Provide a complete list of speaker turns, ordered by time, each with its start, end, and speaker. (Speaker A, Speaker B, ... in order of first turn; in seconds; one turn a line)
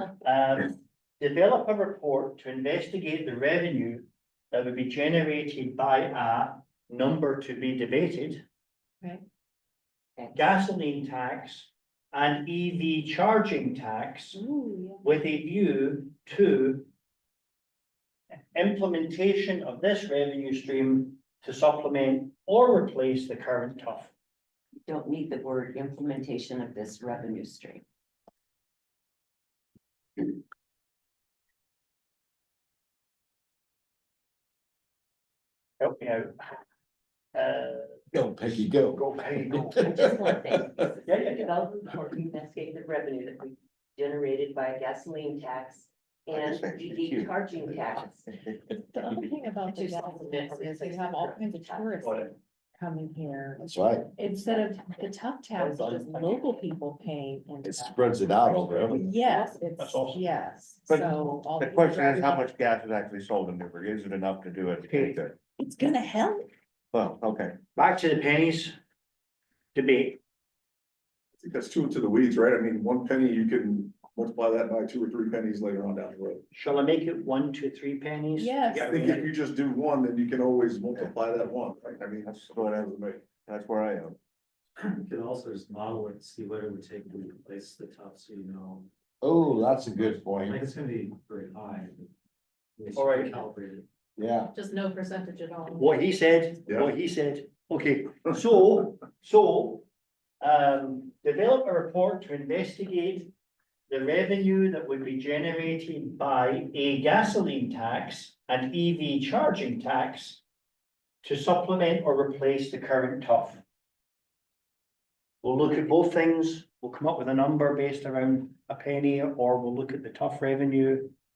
Speaker A: 0.2-8.4
Speaker B: 10.2-10.5
Speaker A: 10.3-14.4
Speaker C: 14.3-15.0
Speaker A: 15.0-16.9
Speaker A: 18.5-24.1
Speaker B: 24.9-27.8
Speaker A: 35.8-36.5
Speaker A: 37.3-38.0
Speaker D: 38.1-40.5
Speaker A: 39.0-39.8
Speaker B: 39.7-48.3
Speaker A: 41.0-41.5
Speaker E: 46.3-49.1
Speaker C: 48.8-62.5
Speaker B: 49.6-52.0
Speaker A: 52.0-52.4
Speaker D: 53.6-54.1
Speaker B: 55.6-56.7
Speaker D: 57.6-59.1
Speaker B: 59.1-59.8
Speaker A: 59.8-60.2
Speaker E: 60.9-65.4
Speaker A: 64.9-65.2
Speaker C: 65.6-66.5
Speaker E: 66.9-67.6
Speaker A: 67.8-68.7
Speaker A: 69.8-70.2
Speaker F: 71.4-76.4
Speaker A: 76.5-79.3
Speaker C: 78.4-79.0
Speaker F: 78.8-83.2
Speaker E: 82.0-84.2
Speaker G: 84.8-88.9
Speaker D: 89.2-90.6
Speaker G: 90.5-92.1
Speaker G: 92.8-93.8
Speaker A: 93.0-93.5
Speaker D: 94.2-94.5
Speaker C: 94.5-95.9
Speaker A: 95.8-99.8
Speaker A: 100.4-103.3
Speaker A: 103.9-110.4
Speaker A: 111.2-113.6
Speaker A: 115.4-121.1